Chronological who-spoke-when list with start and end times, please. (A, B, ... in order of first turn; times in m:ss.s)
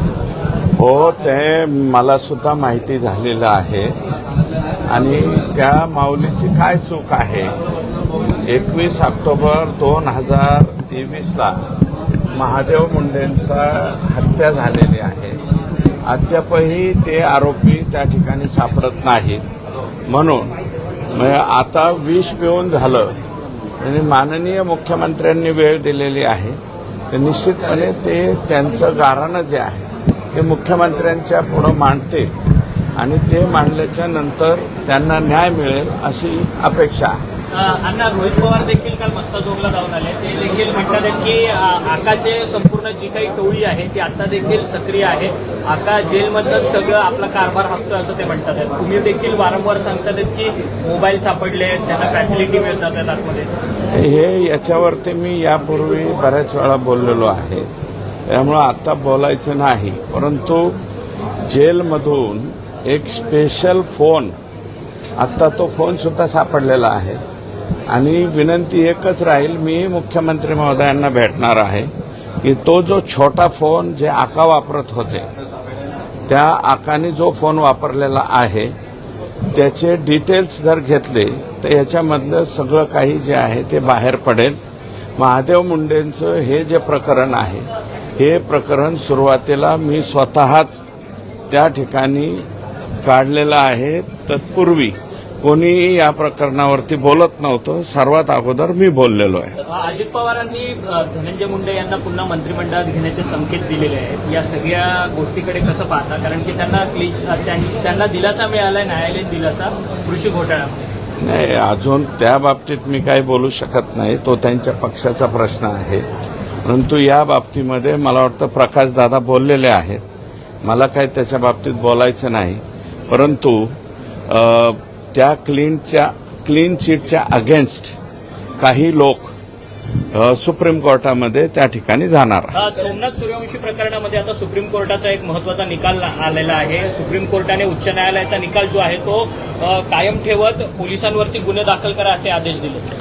0:00.8-0:03.9 A
0:04.9-0:07.5 A
0:08.4-0:11.6 A
0:12.3-0:15.4 A
0:16.0-0:19.4 A
0:20.1-0:20.5 A
0:21.1-0:23.1 A
0:23.8-0:26.6 A
0:27.1-0:32.3 A
0:33.0-0:37.2 A
0:37.5-0:53.5 B
0:53.9-0:57.7 A
0:58.3-1:00.8 A
1:01.4-1:04.3 A
1:05.2-1:07.2 A
1:07.9-1:11.9 A
1:12.4-1:15.2 A
1:16.3-1:18.7 A
1:19.5-1:24.6 A
1:25.2-1:30.8 A
1:31.5-1:32.4 A
1:33.0-1:39.6 A
1:39.6-1:50.8 B
1:51.2-1:56.0 A
1:56.6-2:00.0 A
2:00.6-2:03.7 A
2:04.3-2:07.9 A
2:08.6-2:09.3 A
2:10.1-2:12.6 A
2:12.5-2:22.9 B